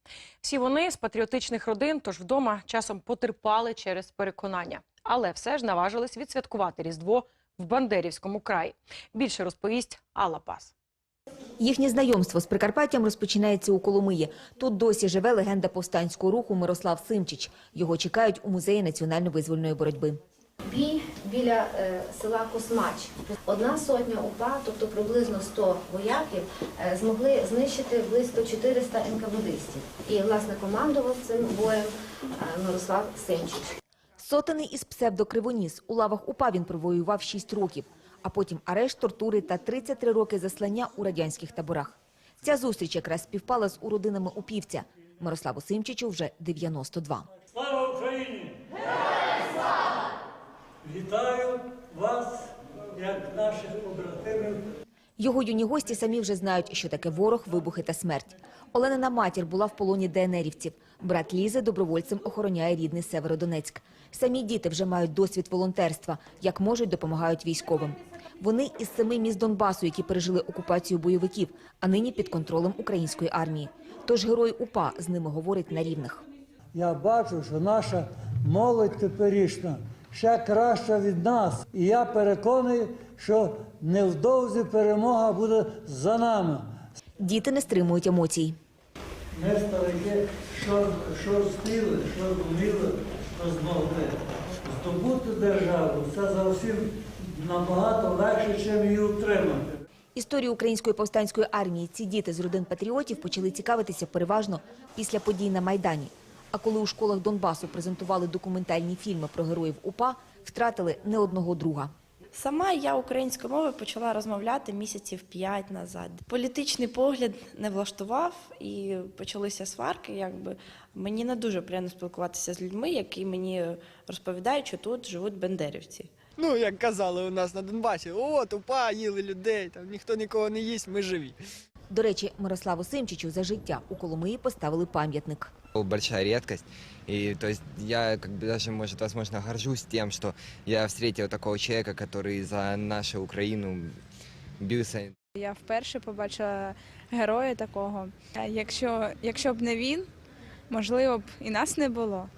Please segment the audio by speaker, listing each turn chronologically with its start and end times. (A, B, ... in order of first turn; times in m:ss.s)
0:00.4-0:10.7 A
0:11.6-0:20.2 B
0:20.6-0:33.7 C
0:34.2-0:47.3 B
0:47.5-0:48.6 D
0:50.8-0:54.6 D
0:55.2-1:16.2 B
1:16.7-1:26.9 D
1:27.2-1:28.6 B
1:29.3-1:39.7 D
1:40.1-1:51.9 B
1:52.3-2:06.1 E
2:06.4-2:11.4 F
2:11.9-2:15.5 B
2:17.5-2:23.7 G
2:24.6-2:24.9 G
2:25.4-2:30.1 H
2:30.7-2:32.3 H